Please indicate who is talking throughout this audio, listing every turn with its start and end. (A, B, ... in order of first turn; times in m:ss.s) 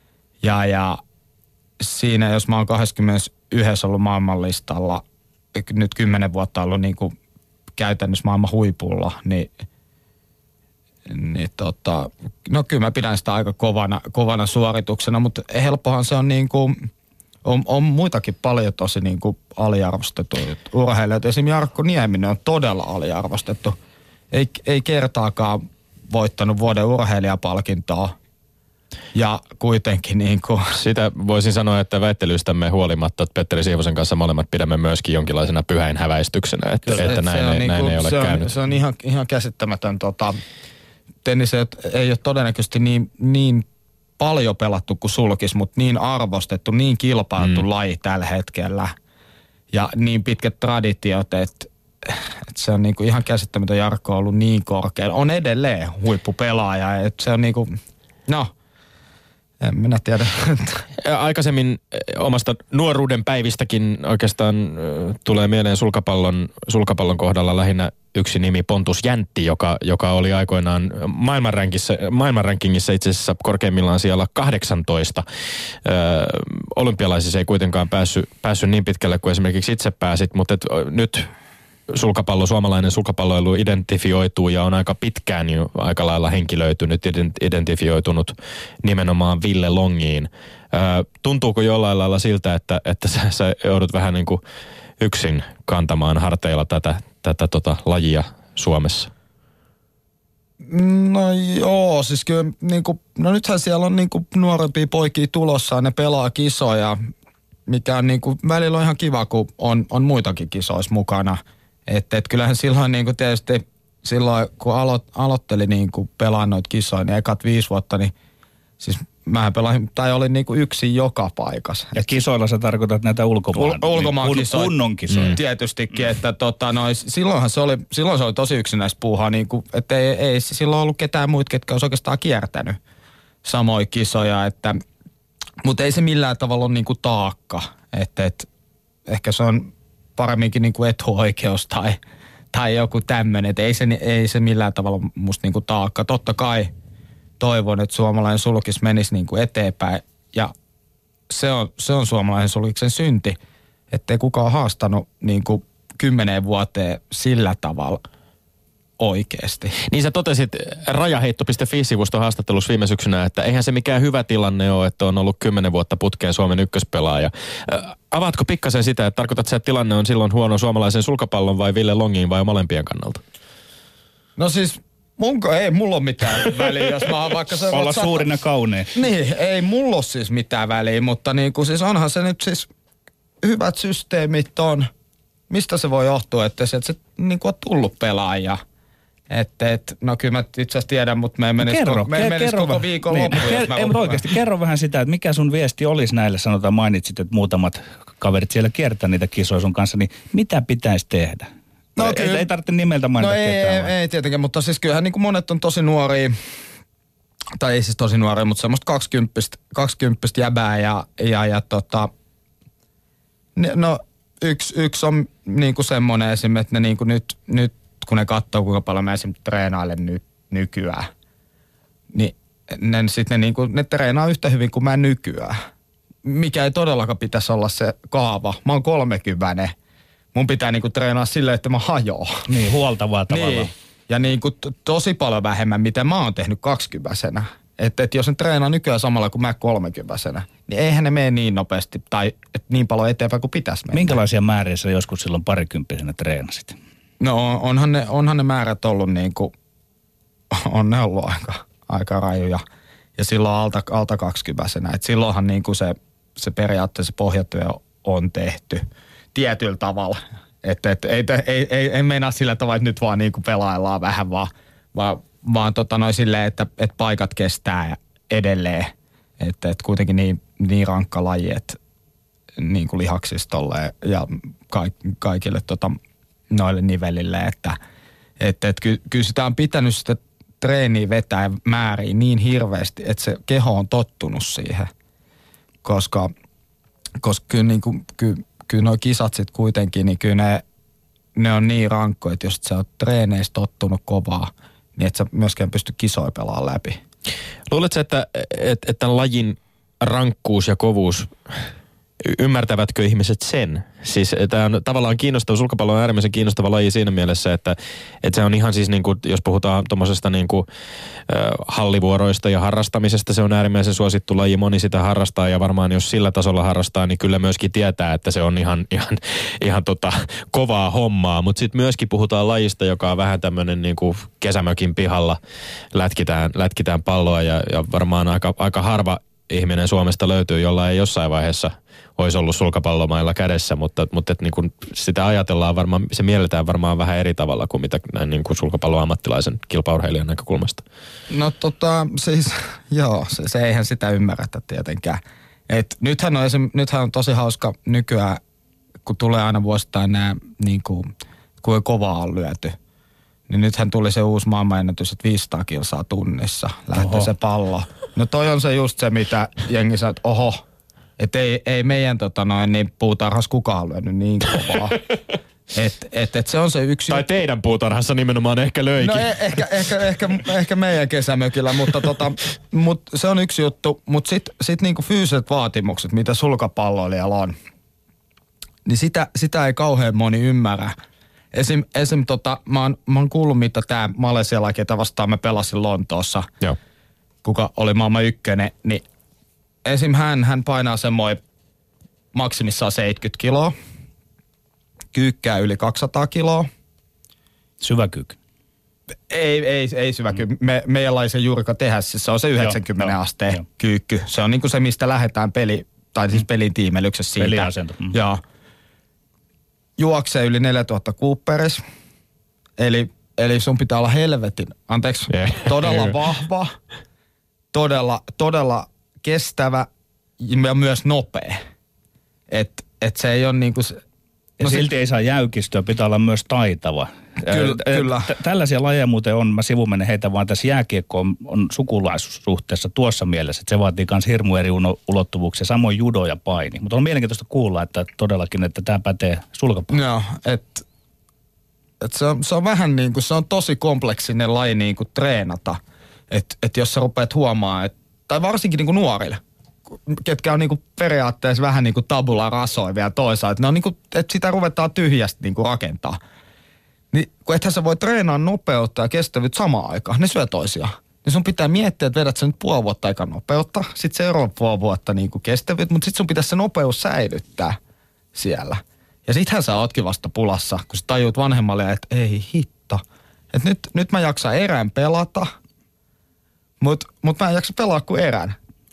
0:00.4-0:01.0 A
0:01.8-0:05.0 A
0:05.5-0:07.1 A
0:07.8-0:09.5 A
0:11.1-0:16.7 A
0:17.4-0:23.8 A
0:24.3-0:28.1 A
0:29.1-0:30.8 A
0:30.7-0:38.5 B
0:36.8-0:37.1 C
0:37.0-0:40.4 A
0:41.2-0:43.6 A
0:44.2-0:48.9 A
0:49.7-0:57.8 A
0:59.6-1:00.8 A
1:01.0-1:15.2 B
1:15.8-1:21.3 B
1:21.9-1:34.4 B
1:35.0-1:39.1 B
1:40.6-1:47.0 A
1:47.7-1:58.1 A
1:58.8-2:02.1 A
2:01.9-2:05.4 C
2:03.5-2:12.8 A
2:13.4-2:14.8 A
2:15.6-2:18.5 A
2:19.0-2:22.0 A
2:22.5-2:26.7 A
2:27.4-2:30.5 A
2:31.3-2:33.4 A
2:33.9-2:38.0 A
2:39.0-2:39.8 A
2:39.8-2:53.2 B
2:54.4-2:58.3 A
2:57.7-2:58.9 C
2:58.9-3:02.7 A
3:03.4-3:04.9 A
3:05.5-3:08.6 A
3:09.3-3:14.2 A
3:11.6-3:23.9 C
3:22.0-3:22.5 A
3:23.2-3:26.4 A
3:27.6-3:32.1 A
3:33.6-3:41.1 A
3:42.1-3:45.6 A
3:46.2-3:49.7 A
3:50.3-3:52.4 A
3:52.5-3:53.7 C
3:53.3-4:04.2 A
4:03.9-4:06.8 C
4:07.2-4:09.5 A
4:10.5-4:12.6 A
4:13.2-4:31.8 A
4:32.6-4:36.0 A
4:36.5-4:37.8 A
4:38.4-4:44.9 A
4:45.8-4:46.3 A
4:47.2-4:50.6 A
4:51.3-4:57.0 A
4:57.7-5:01.3 B
5:02.2-5:10.6 B
5:11.3-5:25.4 B
5:25.9-5:40.8 B
5:41.3-5:48.4 A
5:49.0-5:51.1 A
5:51.6-5:52.8 A
5:53.5-6:00.6 A
6:01.2-6:05.0 A
6:05.7-6:07.3 A
6:07.1-6:09.9 B
6:09.0-6:17.5 A
6:18.8-6:20.9 A
6:21.5-6:26.5 A
6:27.4-6:29.0 A
6:29.8-6:31.4 A
6:32.3-6:33.7 A
6:35.1-6:36.7 A
6:37.8-6:38.4 C
6:39.3-6:48.4 A
6:42.6-6:43.6 C
6:47.4-6:48.2 C
6:50.0-6:51.8 A
6:52.8-6:56.7 A
6:55.3-6:56.0 B
6:57.7-6:59.9 A
7:00.4-7:01.6 A
7:02.5-7:04.0 A
7:04.6-7:19.9 C
7:07.5-7:08.3 A
7:19.9-7:20.8 A
7:22.0-7:29.4 A
7:30.1-7:36.2 A
7:37.1-7:47.8 A
7:48.3-7:55.5 A
7:56.8-7:58.6 A